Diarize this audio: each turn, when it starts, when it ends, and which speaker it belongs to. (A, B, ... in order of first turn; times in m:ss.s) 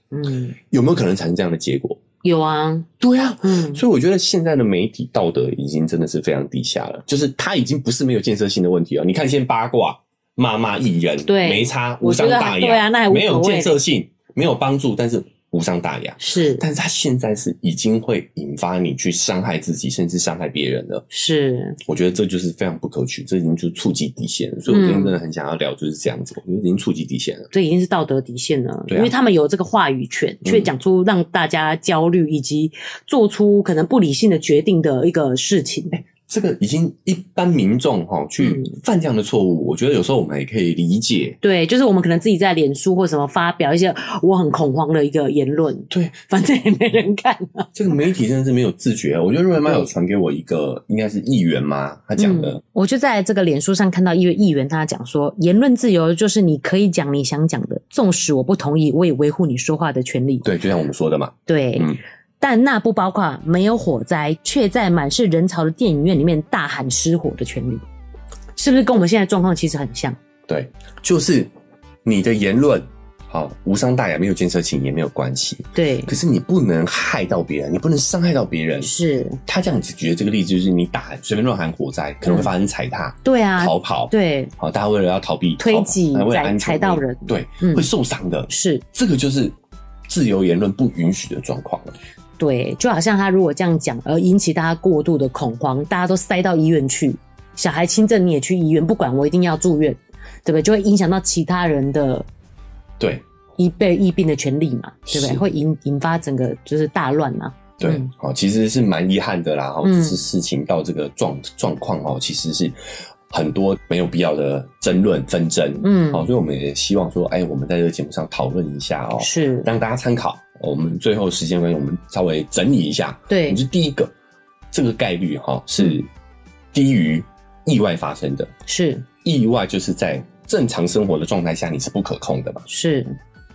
0:00.1-0:00.6 A
0:00.7-0:02.0 B
0:02.2-0:02.9 A
0:03.0-0:21.0 B
0:03.4-0:03.8 A
0:11.3-0:13.8 A
0:16.2-0:16.6 A
0:21.1-0:21.8 A
0:21.8-0:27.5 B
0:24.7-0:25.2 A
0:27.5-0:36.0 A
0:30.4-0:30.7 B
0:35.9-0:41.4 B
0:38.4-0:38.8 A
0:41.4-0:47.7 A
0:47.7-0:52.6 B
0:52.2-1:00.5 A
1:00.4-1:02.0 B
1:01.5-1:07.8 A
1:08.6-1:10.2 A
1:10.5-1:11.5 B
1:12.0-1:18.9 B
1:15.7-1:16.2 A
1:18.8-1:19.4 A
1:19.4-1:29.6 B
1:22.2-1:22.5 A
1:23.2-1:24.5 A
1:25.6-1:27.9 A
1:28.5-1:28.8 A
1:30.1-1:32.0 B
1:32.4-1:42.2 A
1:43.6-1:48.1 A
1:45.1-1:45.4 B
1:47.8-2:04.1 B
1:49.8-1:50.2 A
1:55.8-1:56.3 A
1:59.2-1:59.7 A
2:03.3-2:03.6 A
2:04.7-2:06.1 B
2:06.7-2:08.5 B
2:08.6-2:09.0 A
2:09.2-2:12.6 B
2:12.7-2:13.2 A